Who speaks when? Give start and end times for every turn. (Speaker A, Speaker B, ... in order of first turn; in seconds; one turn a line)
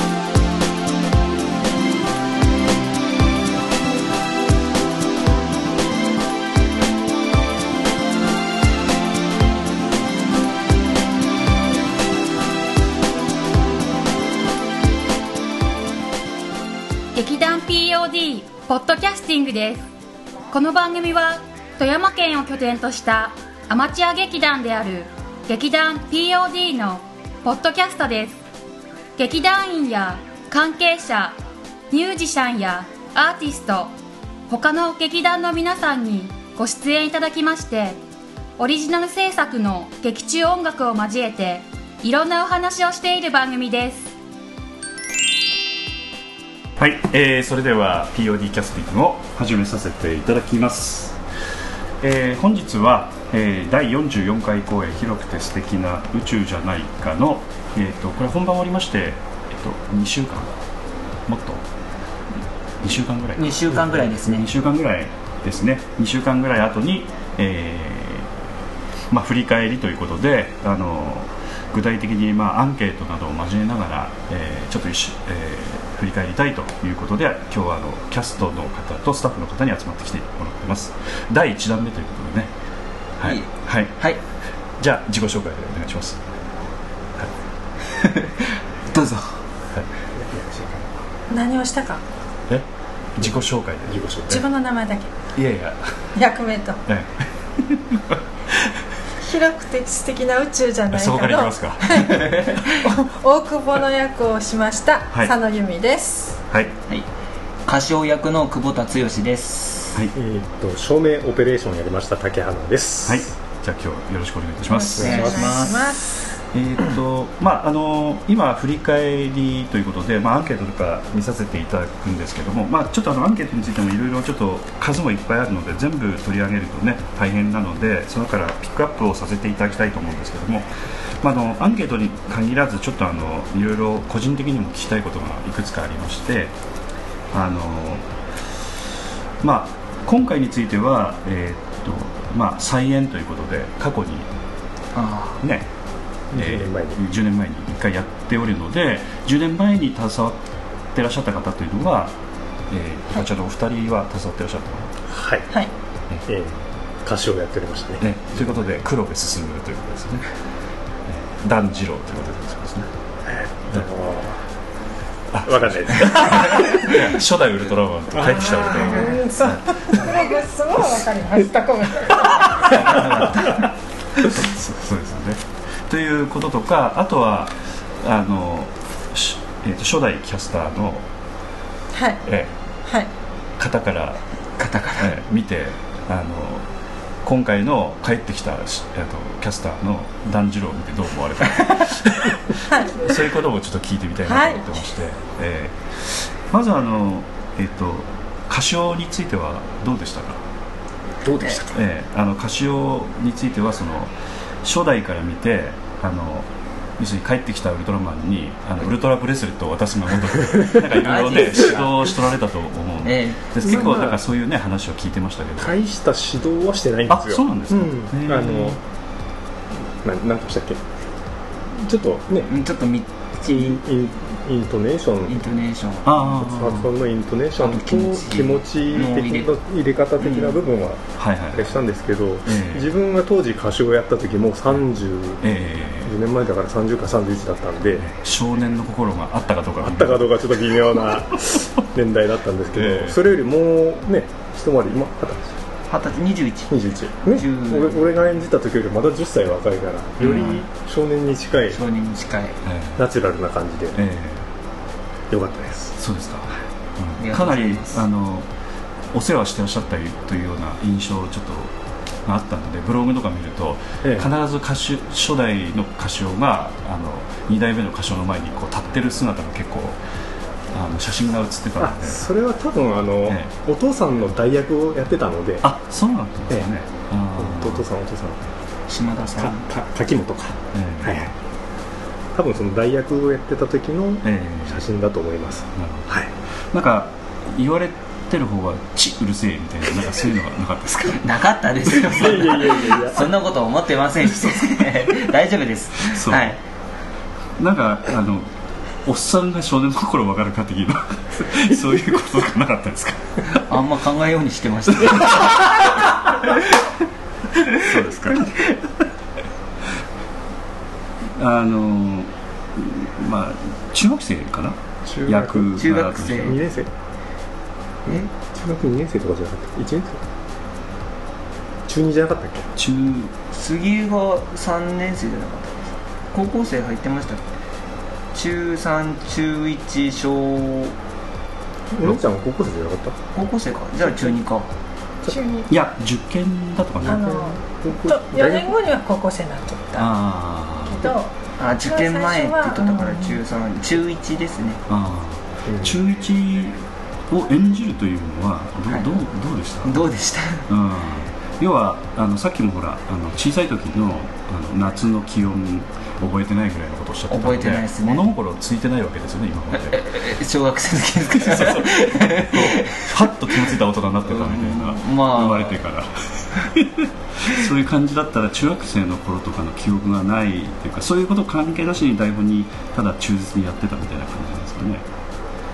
Speaker A: 17.1-19.9
Speaker A: 20.5-28.4
Speaker A: 29.2-31.4
Speaker A: 31.9-33.9
Speaker A: 34.5-38.0
Speaker A: 38.6-44.1
Speaker B: 46.8-51.2
Speaker B: 52.0-60.5
Speaker B: 61.3-61.6
Speaker B: 62.8-68.3
Speaker C: 63.4-64.5
Speaker B: 69.1-82.5
Speaker B: 83.2-84.0
Speaker C: 83.2-84.2
Speaker B: 84.8-86.2
Speaker C: 88.0-89.3
Speaker D: 90.2-91.0
Speaker E: 91.3-92.0
Speaker B: 92.5-94.4
Speaker D: 93.9-94.4
Speaker E: 94.3-95.1
Speaker B: 95.3-96.0
Speaker E: 96.2-96.8
Speaker B: 96.9-98.8
Speaker E: 99.2-106.4
Speaker B: 100.9-102.5
Speaker C: 107.7-110.0
Speaker D: 110.1-113.3
Speaker B: 113.1-115.5
Speaker E: 114.7-116.3
Speaker D: 115.0-115.7
Speaker C: 115.0-115.9
Speaker B: 116.5-130.7
Speaker B: 131.2-136.5
Speaker B: 137.3-138.1
Speaker B: 139.4-144.3
Speaker C: 144.9-145.4
Speaker B: 145.4-145.7
Speaker D: 146.3-147.0
Speaker B: 146.3-152.2
Speaker B: 152.7-154.9
Speaker D: 155.1-155.5
Speaker D: 156.3-158.0
Speaker B: 158.0-160.2
Speaker B: 161.1-162.9
Speaker D: 163.3-164.3
Speaker B: 165.3-170.0
Speaker D: 165.4-167.0
Speaker D: 168.2-169.1
Speaker E: 168.6-172.6
Speaker B: 172.7-173.5
Speaker C: 172.9-173.6
Speaker B: 174.2-181.1
Speaker E: 181.9-182.2
Speaker B: 182.2-182.5
Speaker B: 183.6-184.2
Speaker C: 184.6-185.2
Speaker B: 185.0-186.7
Speaker B: 187.2-200.4
Speaker E: 192.7-193.1
Speaker E: 194.2-194.8
Speaker C: 201.2-201.7
Speaker B: 201.7-215.8
Speaker C: 210.9-212.0
Speaker C: 213.0-213.7
Speaker D: 213.6-214.2
Speaker D: 215.6-218.8
Speaker B: 217.1-218.8
Speaker D: 220.0-220.8
Speaker D: 221.8-222.5
Speaker C: 222.4-223.8
Speaker D: 223.4-225.4
Speaker C: 225.2-226.2
Speaker B: 226.0-226.9
Speaker D: 226.3-238.1
Speaker C: 227.6-229.5
Speaker C: 230.2-230.6
Speaker B: 231.2-231.7
Speaker B: 232.4-232.9
Speaker B: 235.4-236.1
Speaker B: 237.9-240.8
Speaker D: 239.8-245.6
Speaker B: 242.7-243.2
Speaker C: 245.9-246.7
Speaker D: 246.7-251.8
Speaker C: 247.2-248.0
Speaker C: 250.2-250.6
Speaker B: 250.2-250.6
Speaker C: 251.7-252.6
Speaker B: 252.6-253.0
Speaker D: 253.0-254.0
Speaker B: 253.9-254.5
Speaker D: 255.3-255.9
Speaker B: 256.0-258.5
Speaker C: 257.2-258.0
Speaker B: 259.1-261.7
Speaker B: 262.2-270.0
Speaker D: 264.0-264.3
Speaker B: 270.7-272.2
Speaker D: 271.8-275.6
Speaker B: 273.2-273.5
Speaker B: 275.6-277.9
Speaker D: 277.4-278.4
Speaker C: 278.9-279.6
Speaker D: 279.4-281.3
Speaker B: 280.7-281.2
Speaker D: 282.4-286.3
Speaker B: 284.2-284.9
Speaker B: 285.8-291.2
Speaker C: 291.1-296.6
Speaker D: 291.9-293.2
Speaker B: 296.1-296.6
Speaker B: 297.6-298.5
Speaker B: 299.1-303.6
Speaker C: 303.6-305.9
Speaker B: 307.8-308.5
Speaker B: 311.4-316.6
Speaker D: 315.1-315.8
Speaker C: 315.8-316.6
Speaker D: 316.4-316.9
Speaker D: 318.1-320.2
Speaker D: 321.9-322.7
Speaker B: 322.8-323.3
Speaker C: 323.5-327.4
Speaker C: 328.3-330.9
Speaker D: 331.9-333.2
Speaker C: 333.4-334.7
Speaker D: 334.1-334.4
Speaker E: 335.3-335.7
Speaker B: 335.7-337.4
Speaker D: 337.0-338.8
Speaker E: 337.1-340.1
Speaker B: 340.0-341.1
Speaker E: 340.9-341.3
Speaker C: 341.6-344.8
Speaker E: 341.8-343.4
Speaker B: 344.9-350.1
Speaker D: 345.7-346.0
Speaker C: 348.9-349.2
Speaker C: 349.8-350.7
Speaker B: 350.7-360.0
Speaker C: 357.3-358.3
Speaker C: 359.8-363.7
Speaker B: 361.4-375.1
Speaker C: 364.3-365.8